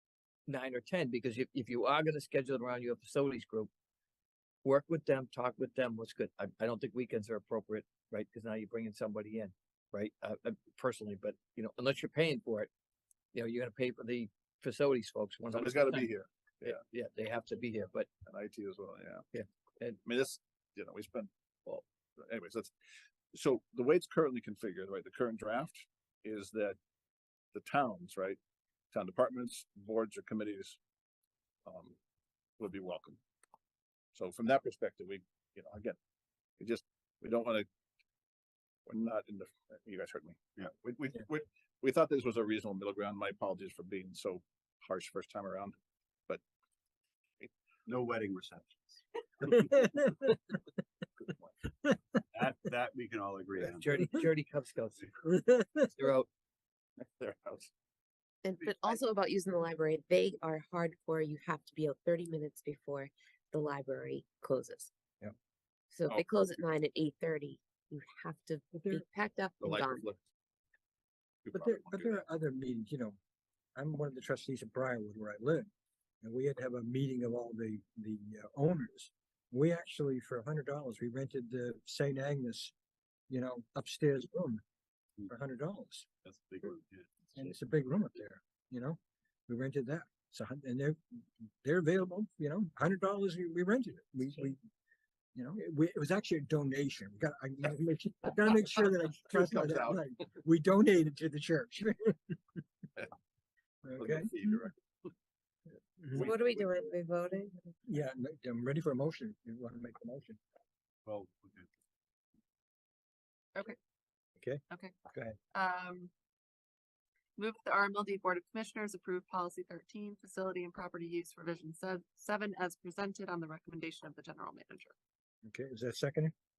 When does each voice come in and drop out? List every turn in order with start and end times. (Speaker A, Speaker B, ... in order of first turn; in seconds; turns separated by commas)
Speaker A: 0.5-3.7, Speaker A: 4.6-12.7, Speaker A: 13.3-16.1, Speaker B: 15.5-16.8, Speaker A: 16.6-18.1, Speaker B: 18.3-19.3, Speaker A: 19.3-20.0, Speaker B: 20.1-22.7, Speaker B: 23.3-26.8, Speaker B: 27.6-28.4, Speaker B: 28.9-30.8, Speaker B: 31.7-32.0, Speaker B: 32.6-33.2, Speaker B: 34.1-36.0, Speaker B: 36.6-37.7, Speaker B: 38.9-45.7, Speaker C: 47.9-49.5, Speaker D: 49.6-50.1, Speaker C: 52.3-54.2, Speaker A: 53.7-55.1, Speaker A: 55.9-56.3, Speaker B: 57.0-57.7, Speaker E: 58.4-64.9, Speaker E: 65.9-70.1, Speaker D: 68.8-69.0, Speaker B: 69.6-70.2, Speaker B: 71.5-72.2, Speaker D: 71.5-73.2, Speaker D: 73.8-75.7, Speaker D: 76.2-82.7, Speaker D: 83.3-84.6, Speaker D: 85.3-86.1, Speaker C: 86.2-87.4, Speaker D: 87.3-94.6, Speaker D: 95.4-102.4, Speaker B: 99.3-100.0, Speaker D: 103.8-104.3, Speaker B: 104.0-104.7, Speaker B: 106.1-106.9, Speaker E: 106.2-107.5, Speaker D: 107.9-110.4, Speaker C: 111.1-111.7, Speaker D: 114.4-115.4, Speaker F: 115.5-116.1, Speaker F: 117.4-124.9, Speaker D: 125.5-126.3